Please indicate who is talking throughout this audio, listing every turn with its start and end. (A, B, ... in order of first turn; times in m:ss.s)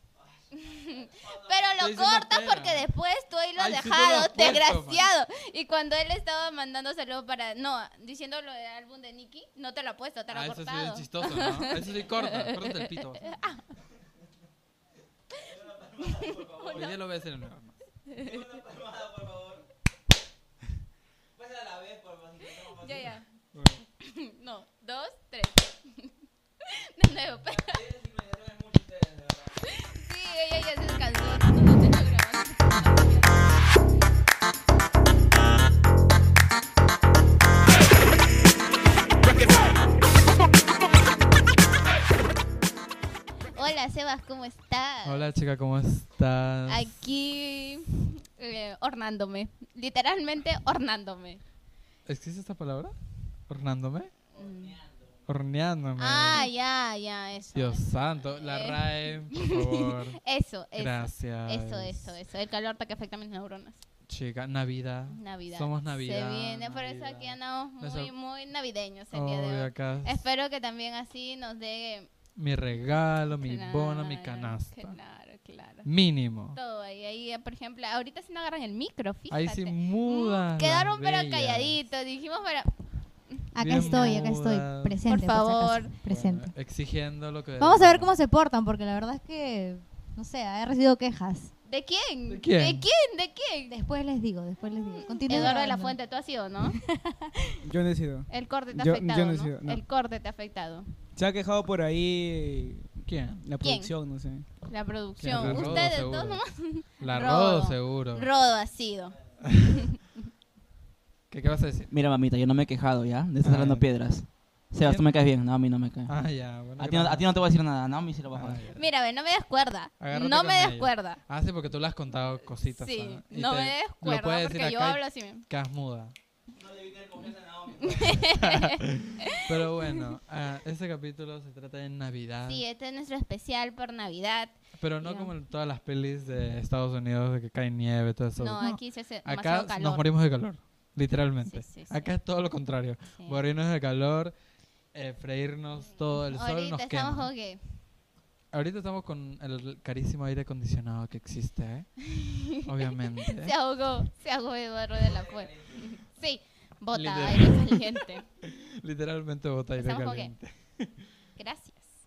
0:00.5-0:13.6 A
0:01.8-0:02.9 B
0:03.6-0:05.1 B
0:10.3-0:13.3 B
0:15.5-0:17.0 A
0:16.6-0:17.8 B
0:18.1-0:18.6 A
0:22.4-0:23.3 A
0:23.6-0:23.8 B
0:24.0-0:28.0 A
0:29.6-0:33.4 A
0:43.5-0:45.2 A
0:45.0-0:46.9 B
0:46.7-0:51.4 A
0:52.1-0:53.0 B
0:53.5-0:54.1 B
0:54.3-0:54.8 A
0:55.3-0:56.5 B
0:56.0-1:03.8 A
0:57.6-1:00.2 B
1:00.8-1:02.2 B
1:04.1-1:08.1 B
1:05.1-1:12.1 A
1:09.1-1:10.2 B
1:12.4-1:15.0 B
1:13.4-1:15.9 A
1:15.8-1:16.6 B
1:16.5-1:22.9 A
1:19.3-1:21.9 B
1:23.5-1:26.5 C
1:23.6-1:25.0 B
1:25.0-1:26.0 A
1:26.1-1:28.1 B
1:27.6-1:31.5 C
1:31.7-1:33.8 A
1:32.3-1:32.8 B
1:33.7-1:36.0 C
1:34.9-1:36.8 A
1:36.7-1:37.6 C
1:37.6-1:39.8 D
1:38.3-1:40.9 A
1:41.2-1:44.5 D
1:43.1-1:43.4 B
1:43.6-1:43.9 A
1:44.6-1:50.1 A
1:45.2-1:46.4 B
1:45.4-1:45.7 D
1:47.0-1:48.3 B
1:49.4-1:49.7 B
1:51.3-1:51.9 B
1:51.9-1:56.2 E
1:53.4-1:53.9 B
1:54.8-1:55.1 B
1:56.0-1:57.2 B
1:56.8-1:58.6 E
1:58.3-1:58.8 B
1:58.8-2:01.2 A
2:00.0-2:06.2 B
2:02.6-2:05.5 A
2:07.7-2:09.5 A
2:08.2-2:12.6 B
2:12.5-2:15.3 A
2:14.8-2:24.3 B
2:18.4-2:20.0 A
2:21.5-2:22.1 A
2:24.9-2:27.3 B
2:26.1-2:27.6 A
2:28.5-2:32.0 B
2:32.1-2:32.6 A
2:32.6-2:33.5 B
2:33.2-2:38.2 A
2:36.9-2:37.8 B
2:38.4-2:41.1 B
2:39.8-2:40.3 A
2:41.4-2:41.9 A